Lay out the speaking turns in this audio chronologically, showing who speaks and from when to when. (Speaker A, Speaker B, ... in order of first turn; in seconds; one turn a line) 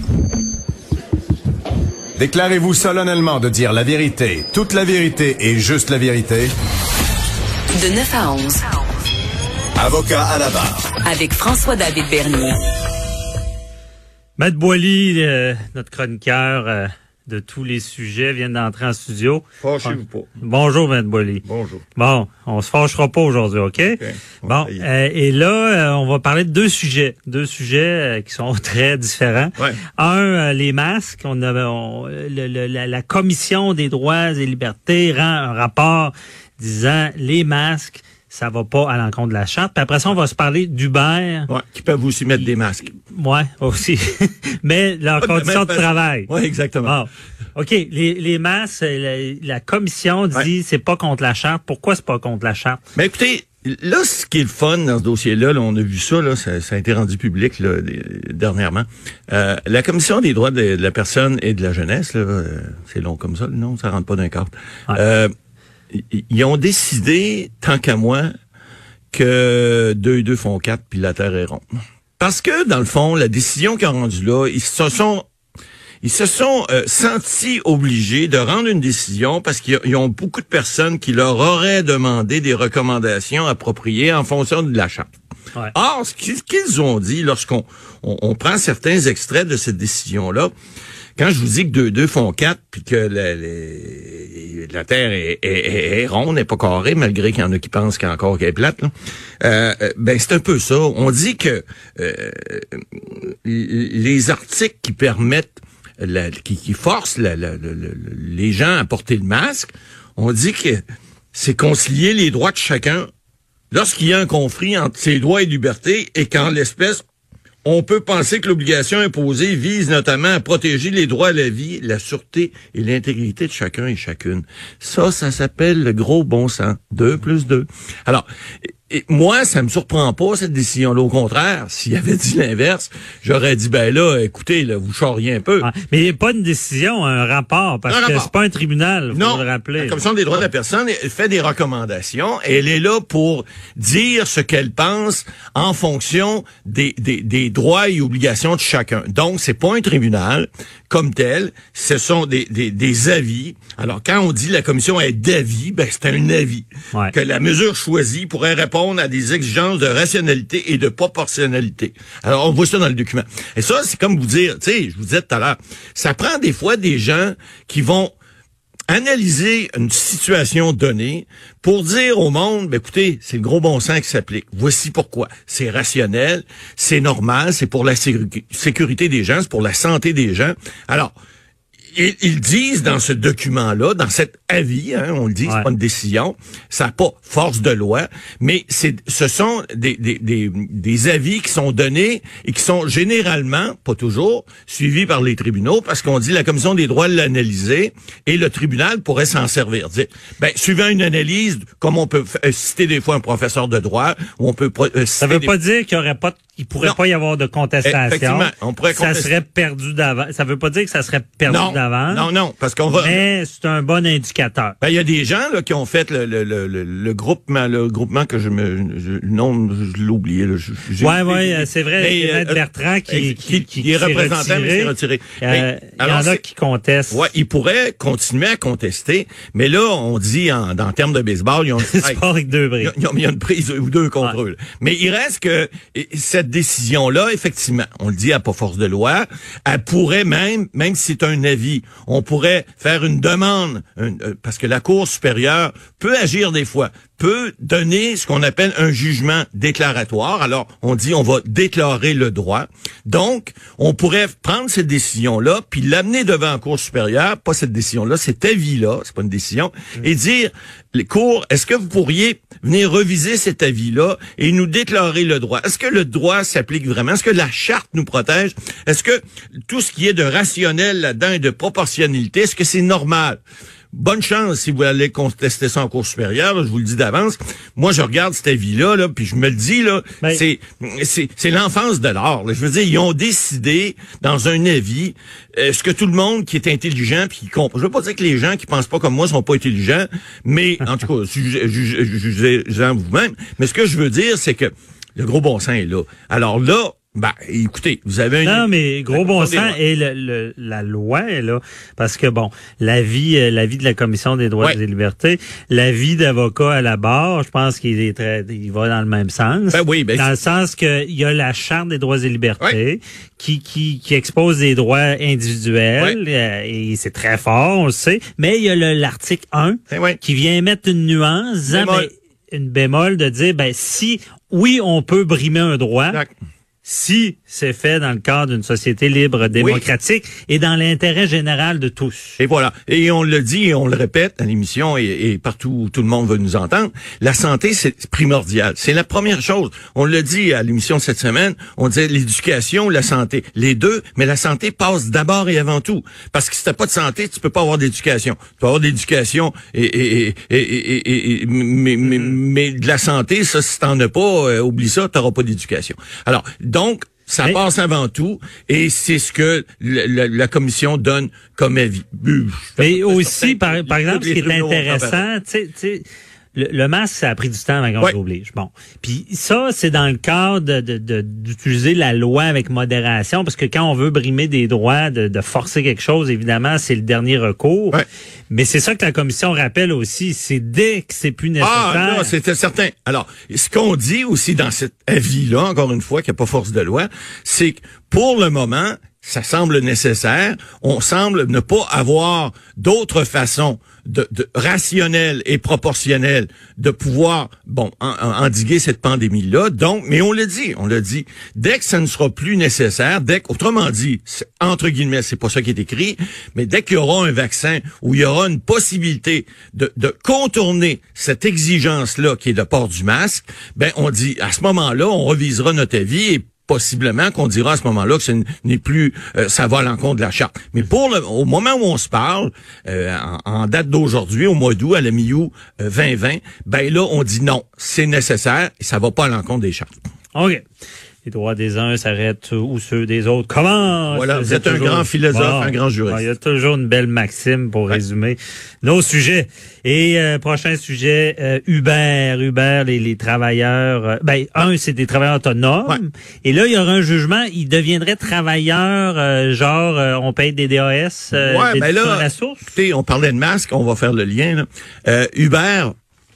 Speaker A: 2.2-6.5
Speaker B: 7.7-8.7
Speaker A: 9.8-11.0
Speaker B: 11.0-12.6
Speaker C: 14.4-21.4
Speaker D: 19.6-20.3
Speaker D: 21.4-21.9
Speaker C: 21.9-41.5
Speaker D: 23.9-24.9
Speaker D: 41.5-42.9
Speaker C: 43.1-46.3
Speaker D: 45.2-47.0
Speaker C: 46.8-52.8
Speaker D: 53.0-65.3
Speaker D: 65.9-68.3
Speaker D: 69.1-75.3
Speaker D: 76.0-85.1
Speaker D: 85.7-90.5
Speaker D: 91.2-110.8
Speaker D: 111.3-113.1
Speaker D: 113.7-117.0
Speaker D: 117.6-128.3
Speaker D: 128.9-135.7
Speaker C: 135.6-140.0
Speaker D: 137.9-138.3
Speaker D: 139.1-168.1
Speaker D: 168.9-181.1
Speaker D: 181.9-205.6
Speaker C: 205.2-212.3
Speaker D: 207.8-209.3
Speaker D: 211.5-213.2
Speaker C: 212.9-214.8
Speaker D: 214.8-226.4
Speaker C: 221.0-227.3
Speaker D: 227.1-232.2
Speaker C: 231.8-232.9
Speaker D: 232.8-273.4
Speaker D: 273.9-299.8
Speaker C: 298.4-326.2
Speaker D: 309.7-310.3
Speaker D: 319.9-320.2
Speaker D: 321.7-322.1
Speaker C: 326.9-332.4
Speaker D: 329.5-329.9
Speaker D: 332.4-365.2
Speaker C: 362.8-378.0
Speaker C: 378.5-382.3
Speaker D: 381.6-429.9
Speaker C: 430.3-430.6
Speaker C: 431.2-452.7
Speaker D: 434.1-436.2
Speaker D: 451.3-455.9